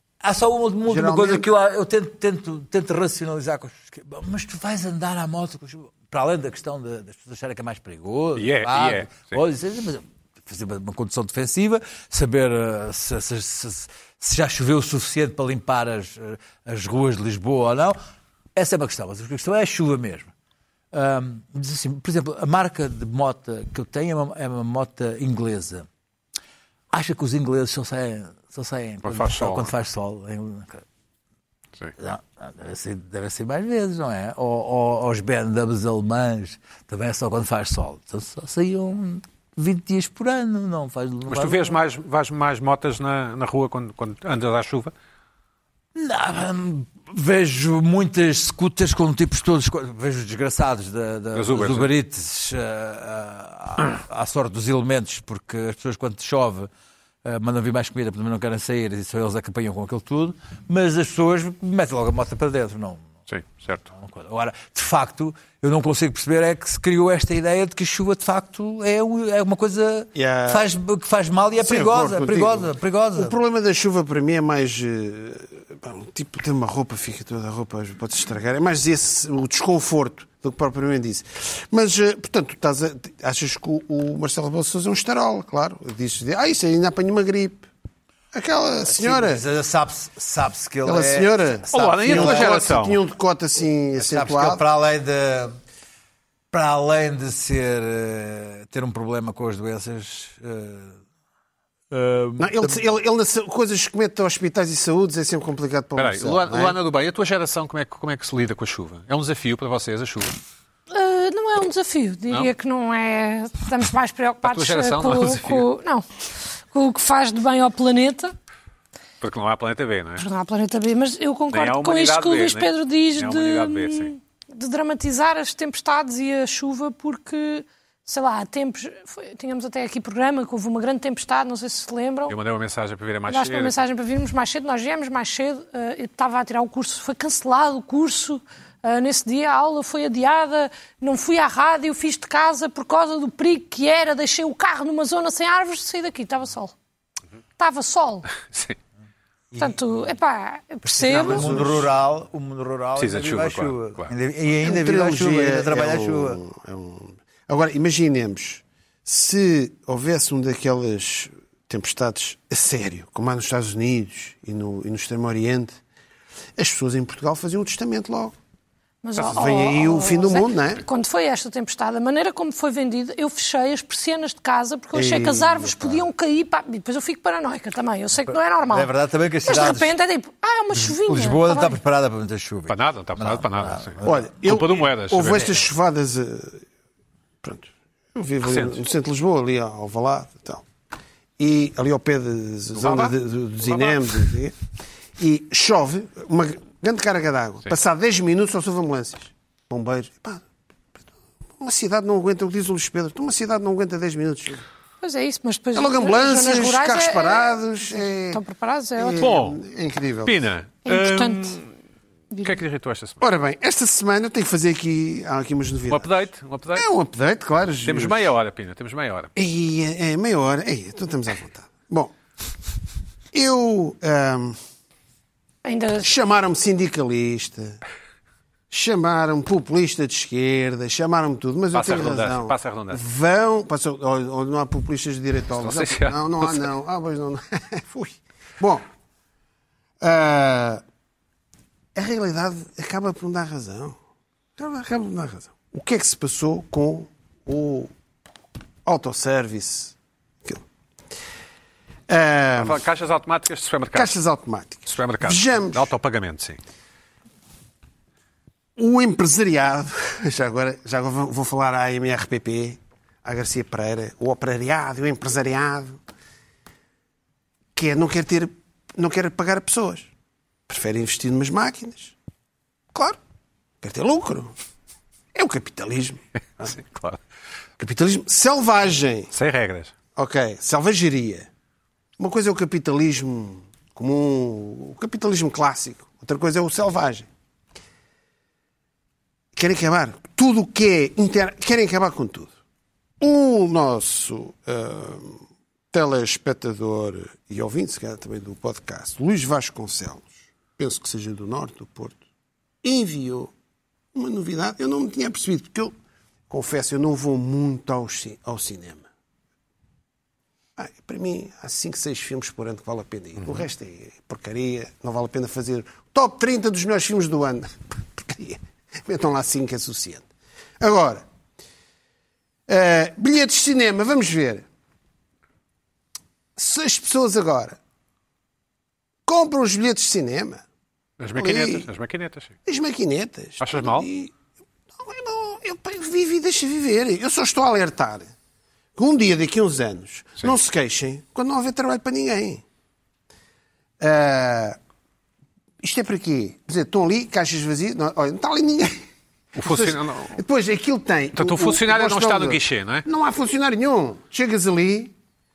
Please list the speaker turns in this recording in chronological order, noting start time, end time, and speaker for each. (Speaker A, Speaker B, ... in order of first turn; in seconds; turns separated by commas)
Speaker A: 0.2-18.0, Speaker B: 0.9-1.5, Speaker C: 8.4-9.4, Speaker A: 18.6-20.3, Speaker A: 20.9-25.9, Speaker A: 26.9-30.9, Speaker C: 29.0-29.7, Speaker A: 32.0-41.8, Speaker C: 41.3-44.9, Speaker A: 46.0-56.7, Speaker C: 51.3-51.9, Speaker A: 57.2-63.1, Speaker C: 63.3-63.9, Speaker A: 63.9-73.4, Speaker B: 70.2-70.7, Speaker B: 71.6-87.7, Speaker B: 88.3-89.4, Speaker A: 88.9-92.6, Speaker B: 90.8-94.6, Speaker C: 91.7-93.0, Speaker A: 94.0-95.6, Speaker A: 96.5-101.0, Speaker A: 101.9-102.8, Speaker B: 102.4-106.8, Speaker C: 106.0-110.4, Speaker D: 110.9-116.0, Speaker C: 114.4-115.7, Speaker D: 116.7-118.3, Speaker C: 119.2-120.2, Speaker D: 120.2-132.4, Speaker C: 121.5-124.1, Speaker C: 132.3-133.8, Speaker D: 133.3-146.7, Speaker D: 147.6-148.3, Speaker C: 148.4-148.8, Speaker A: 149.5-150.1, Speaker D: 149.6-151.6, Speaker A: 150.8-156.4, Speaker B: 151.1-151.9, Speaker C: 153.0-154.1, Speaker B: 154.6-165.8, Speaker B: 166.6-168.4, Speaker D: 169.0-178.9, Speaker B: 169.2-170.8, Speaker B: 174.9-176.0, Speaker A: 178.7-179.9, Speaker D: 179.4-181.8, Speaker A: 180.7-184.3, Speaker C: 182.7-185.7, Speaker B: 184.0-186.6, Speaker B: 187.4-190.7, Speaker C: 188.5-188.8, Speaker B: 191.4-194.6, Speaker C: 192.8-194.3, Speaker B: 195.2-200.4, Speaker B: 201.6-204.7, Speaker D: 205.0-209.3, Speaker B: 205.8-208.4, Speaker B: 209.0-210.4, Speaker C: 209.2-209.6, Speaker C: 210.2-211.7, Speaker D: 210.9-211.6, Speaker C: 212.4-213.2, Speaker B: 213.2-216.1, Speaker C: 215.9-216.9, Speaker B: 216.8-218.3, Speaker C: 217.8-219.3, Speaker B: 219.4-222.1, Speaker B: 223.3-224.6, Speaker D: 225.6-226.1, Speaker B: 226.0-227.8, Speaker B: 228.7-238.8, Speaker C: 231.7-233.0, Speaker C: 235.6-236.7, Speaker B: 240.0-240.8, Speaker B: 241.9-244.0, Speaker B: 244.6-247.9, Speaker B: 248.8-250.6, Speaker B: 252.1-252.8, Speaker C: 252.6-254.2, Speaker B: 253.9-255.9, Speaker C: 254.9-256.6, Speaker B: 258.8-266.0, Speaker B: 267.8-270.1, Speaker B: 270.7-272.2, Speaker B: 272.9-273.2, Speaker B: 273.8-274.5, Speaker B: 275.3-276.7, Speaker C: 276.6-277.2, Speaker B: 277.8-279.3, Speaker C: 279.3-279.9, Speaker B: 280.2-281.5, Speaker B: 282.2-287.3, Speaker B: 289.6-292.5, Speaker B: 293.2-295.4, Speaker B: 295.9-302.2, Speaker B: 302.8-303.5, Speaker B: 304.1-305.9, Speaker B: 306.5-309.1, Speaker B: 310.8-320.3, Speaker B: 320.8-321.2, Speaker B: 322.7-324.7, Speaker B: 326.6-327.8, Speaker B: 329.3-330.6, Speaker C: 331.2-332.5, Speaker B: 331.4-331.9, Speaker B: 332.7-334.3, Speaker C: 333.6-334.1, Speaker B: 335.0-338.3, Speaker B: 339.0-342.6, Speaker B: 344.0-344.8, Speaker B: 345.8-349.0, Speaker C: 349.6-350.4, Speaker B: 349.6-355.1, Speaker C: 351.4-353.1